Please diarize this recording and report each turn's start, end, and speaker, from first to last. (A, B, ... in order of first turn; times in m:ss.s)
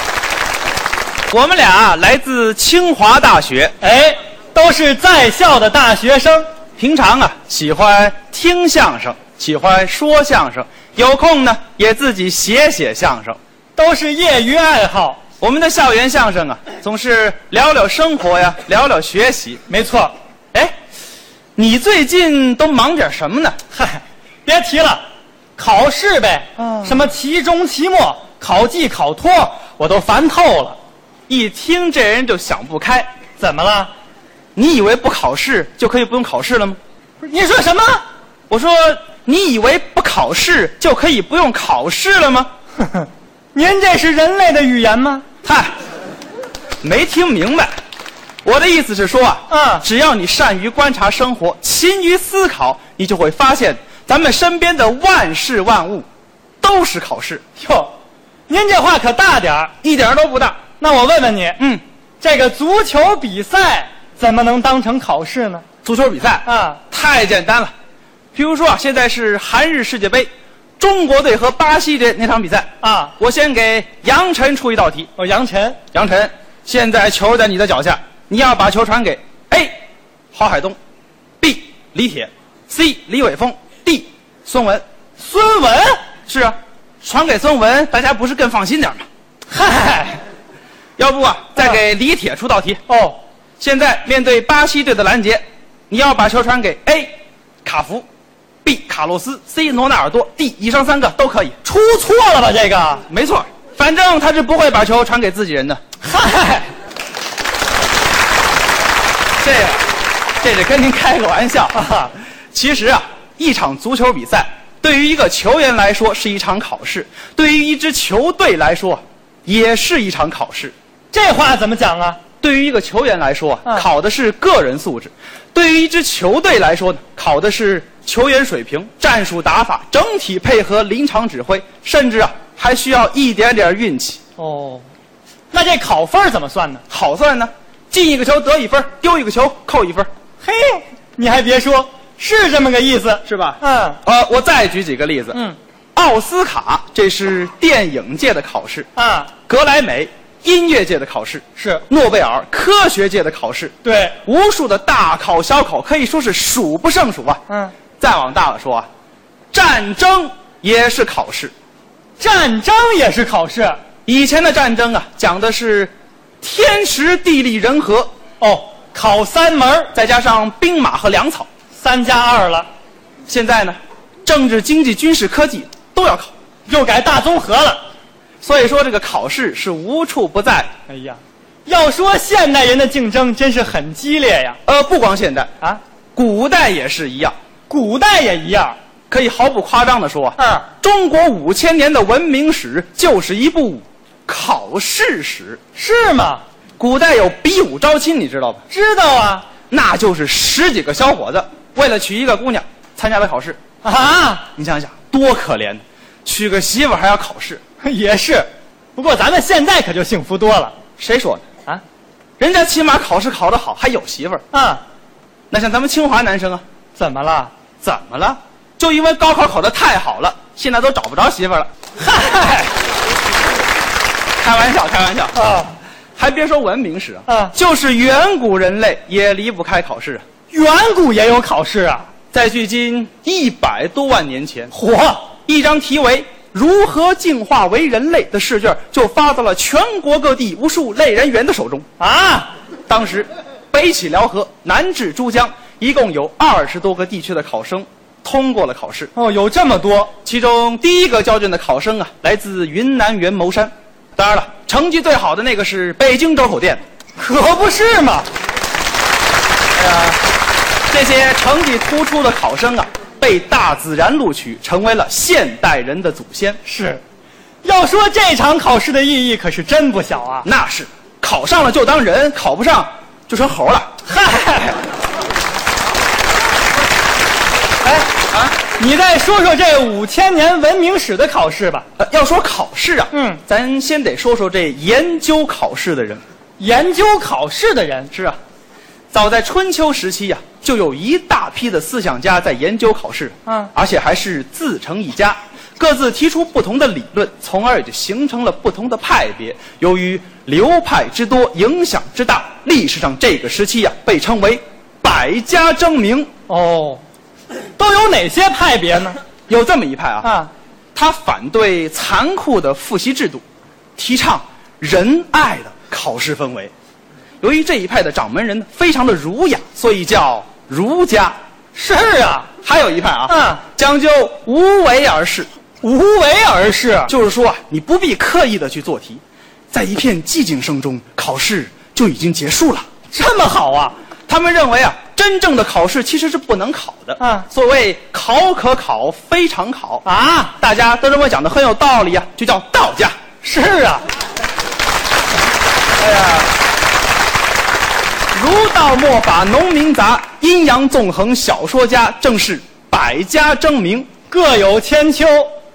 0:01.3-0:03.8 A
0:03.8-0:06.5 B
0:06.8-0:13.4 A
0:13.8-0:15.2 B
0:15.4-0:19.6 A
0:19.7-0:20.2 B
0:21.6-0:23.6 A
0:23.7-0:25.0 B
0:25.6-0:30.8 B
0:26.6-0:27.1 A
0:31.3-0:33.1 A
0:33.4-0:33.9 B
0:34.6-0:36.8 A
0:37.2-0:38.0 B
0:38.5-0:42.5 A
0:42.9-0:45.2 B
0:45.4-0:45.7 A
0:46.8-0:47.7 A
0:48.4-0:56.1 A
0:49.5-0:49.8 B
0:56.6-0:57.4 A
0:57.6-0:57.9 B
0:58.5-0:59.7 B
0:59.8-1:00.6 A
1:00.8-1:01.6 B
1:02.2-1:05.6 B
1:05.8-1:07.7 A
1:06.4-1:06.8 B
1:08.3-1:15.1 A
1:12.8-1:13.2 B
1:15.2-1:15.8 B
1:15.9-1:19.7 A
1:20.3-1:20.8 A
1:21.4-1:24.8 A
1:25.2-1:26.0 B
1:26.3-1:29.1 A
1:29.5-1:30.2 B
1:31.0-1:32.8 A
1:32.9-1:33.2 B
1:33.6-1:37.1 A
1:37.6-1:38.1 A
1:38.6-1:41.6 A
1:41.6-1:43.0 B
1:43.1-1:45.8 A
1:46.0-1:46.7 B
1:49.4-1:49.9 A
1:50.4-1:51.9 A
1:51.7-1:52.1 B
1:52.5-2:00.7 A
2:01.1-2:02.2 B
2:02.4-2:14.2 A
2:14.4-2:14.9 B
2:15.5-2:16.8 B
2:16.9-2:20.1 A
2:20.4-2:24.0 B
2:23.2-2:25.4 A
2:26.0-2:28.9 A
2:29.0-2:29.3 B
2:29.5-2:37.4 A
2:31.6-2:31.8 B
2:33.8-2:34.2 B
2:37.5-2:37.8 B
2:38.0-2:38.9 A
2:39.5-2:41.5 A
2:42.2-2:43.8 B
2:44.1-2:48.1 A
2:48.4-2:49.9 B
2:49.9-2:51.5 A
2:51.8-2:52.7 B
2:53.3-2:56.3 A
2:56.7-2:57.8 B
2:58.4-3:00.7 A
3:00.9-3:04.6 B
3:04.7-3:05.5 A
3:06.2-3:07.4 A
3:07.7-3:08.8 B
3:09.1-3:15.6 A
3:10.4-3:10.7 B
3:15.8-3:16.4 B
3:16.8-3:18.6 A
3:18.7-3:19.5 B
3:19.7-3:23.6 A
3:23.8-3:24.5 B
3:24.6-3:27.6 A
3:27.8-3:30.8 B
3:31.0-3:31.4 A
3:32.4-3:34.4 A
3:34.5-3:34.8 B
3:35.5-3:36.6 A
3:37.0-3:37.5 B
3:37.8-3:41.7 A
3:42.0-3:42.8 B
3:44.4-3:45.4 A
3:45.3-3:45.7 B
3:46.2-3:50.2 A
3:47.3-3:47.5 B
3:50.5-3:52.1 B
3:52.3-3:54.7 A
3:54.7-3:55.3 B
3:55.5-4:01.9 A
4:02.0-4:02.5 B
4:02.9-4:09.1 A
4:09.1-4:10.1 B
4:10.2-4:16.8 A
4:17.2-4:18.3 B
4:19.8-4:20.2 A
4:20.9-4:26.6 A
4:26.6-4:27.0 B
4:27.6-4:30.5 B
4:30.4-4:33.9 A
4:34.1-4:34.8 B
4:37.8-4:38.1 B
4:38.3-4:38.6 A
4:38.6-4:41.9 B
4:42.0-4:46.2 A
4:43.1-4:43.4 B
4:46.6-4:48.1 B
4:48.1-4:48.4 A
4:49.1-5:06.3 A
4:53.5-4:53.7 B
5:06.5-5:07.0 B
5:07.8-5:09.2 B
5:09.5-5:10.3 A
5:10.2-5:10.5 B
5:11.0-5:13.4 A
5:14.0-5:16.7 A
5:17.4-5:21.4 A
5:21.8-5:22.5 B
5:22.6-5:25.5 A
5:23.3-5:23.6 B
5:25.8-5:27.1 B
5:27.1-5:32.9 A
5:33.1-5:34.0 B
5:34.3-5:40.0 A
5:37.2-5:37.5 B
5:40.0-5:40.5 B
5:40.6-5:43.2 A
5:43.4-5:44.0 B
5:46.0-5:46.5 A
5:48.3-5:54.1 A
5:54.3-5:55.5 B